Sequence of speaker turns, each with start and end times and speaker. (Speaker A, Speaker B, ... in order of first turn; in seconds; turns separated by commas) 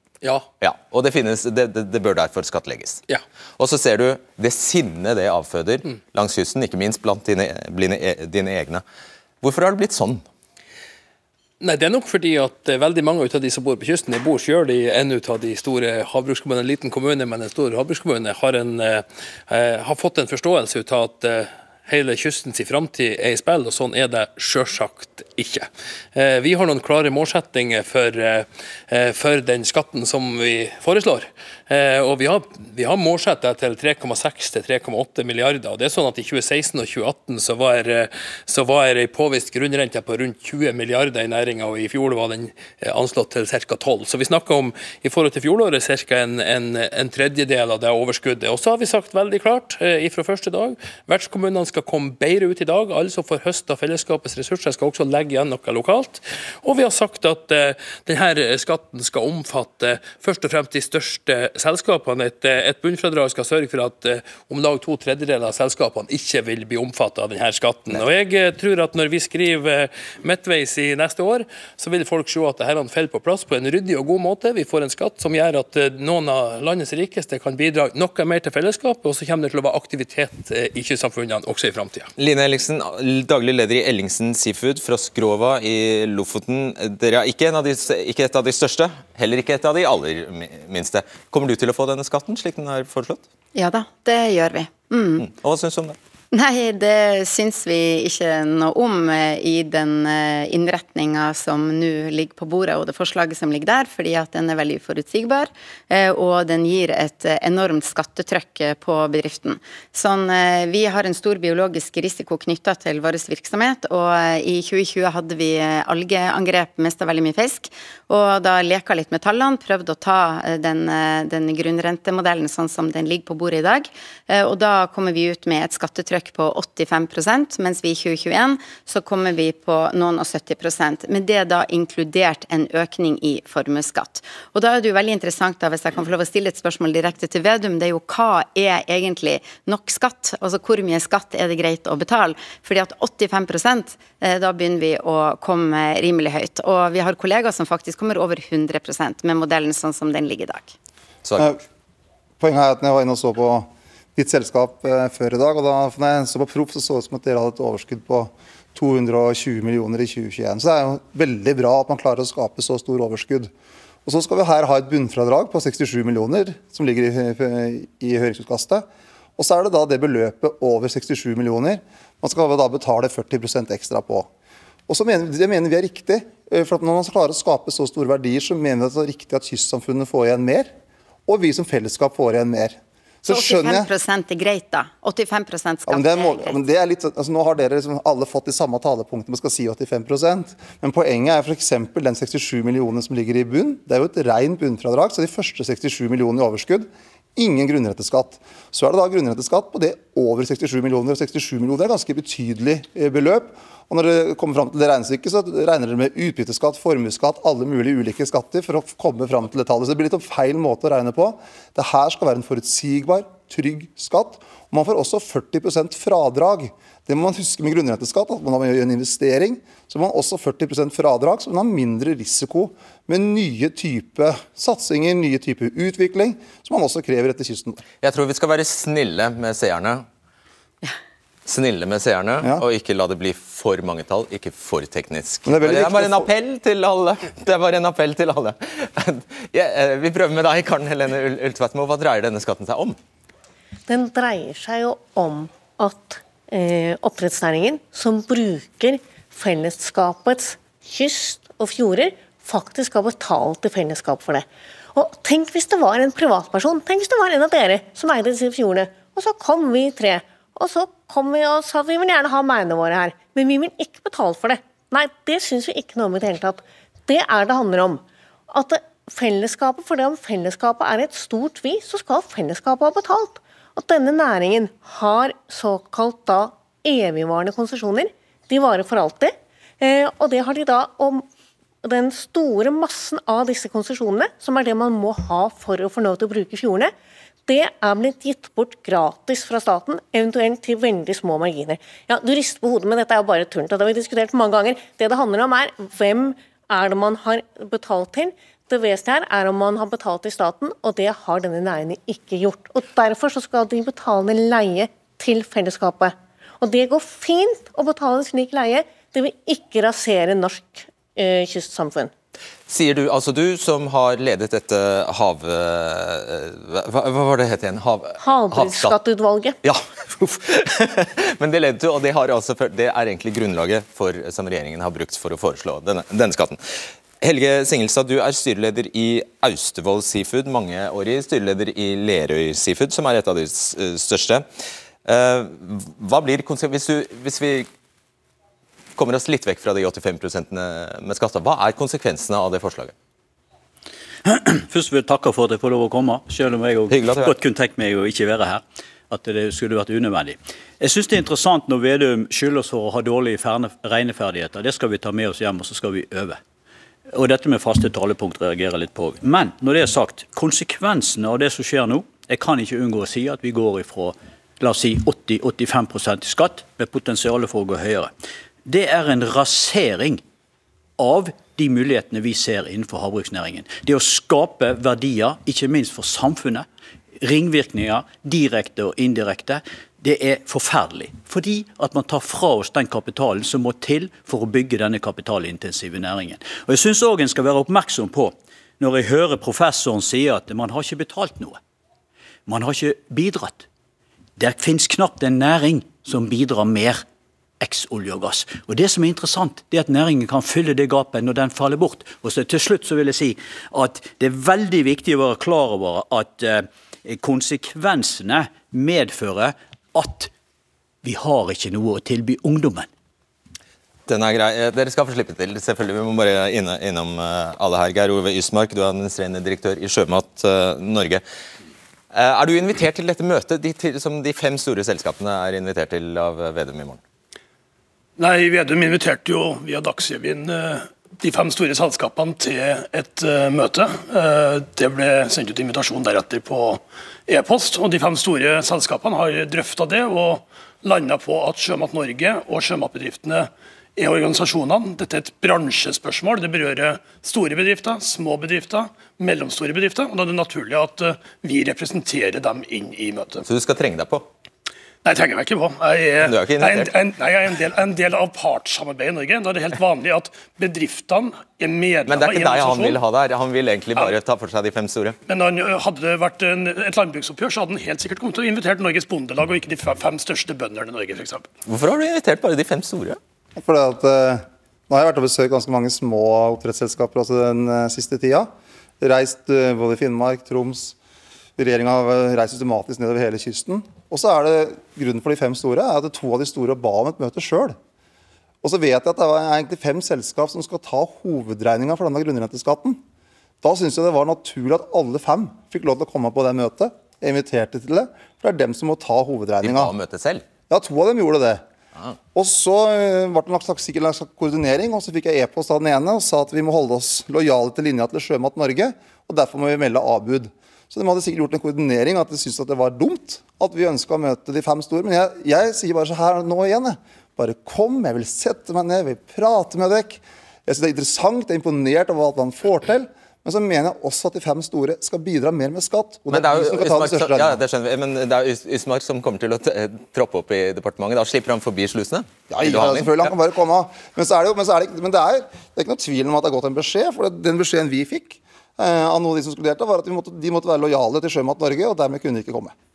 Speaker A: 0.6-3.0, Speaker A: 3.6-8.8, Speaker A: 9.4-10.2, Speaker B: 11.6-82.1, Speaker A: 82.2-93.2, Speaker C: 93.5-95.2, Speaker A: 95.2-96.0, Speaker C: 96.3-150.7, Speaker A: 151.2-151.5, Speaker D: 152.4-163.5, Speaker D: 164.0-168.8, Speaker D: 169.4-174.3, Speaker D: 174.9-180.7, Speaker D: 181.3-183.9, Speaker C: 183.2-186.5, Speaker D: 185.9-227.8, Speaker A: 228.0-230.0, Speaker A: 231.4-243.0, Speaker D: 235.4-236.3, Speaker E: 243.9-281.2, Speaker E: 281.8-286.9, Speaker E: 287.4-312.1, Speaker A: 312.7-318.9, Speaker E: 318.2-319.6, Speaker A: 319.6-334.4, Speaker A: 335.0-337.7, Speaker A: 339.0-342.9, Speaker F: 344.2-356.4, Speaker A: 346.9-347.3, Speaker F: 357.1-368.1, Speaker F: 368.6-370.2, Speaker F: 371.0-376.7, Speaker F: 377.2-391.6, Speaker F: 392.5-393.6, Speaker F: 394.4-397.0, Speaker F: 397.6-410.3, Speaker F: 411.0-412.9, Speaker A: 414.1-421.2, Speaker A: 422.1-427.0, Speaker G: 428.2-453.4, Speaker A: 453.4-454.2, Speaker G: 455.0-463.0, Speaker A: 456.2-456.9, Speaker A: 462.1-465.2, Speaker G: 465.3-471.5, Speaker A: 471.7-473.2, Speaker D: 473.6-480.9, Speaker D: 481.6-487.8, Speaker D: 488.6-493.0, Speaker D: 493.6-499.9, Speaker A: 499.6-500.4, Speaker D: 500.7-501.6, Speaker D: 502.3-527.6, Speaker A: 526.3-533.3, Speaker D: 532.5-542.7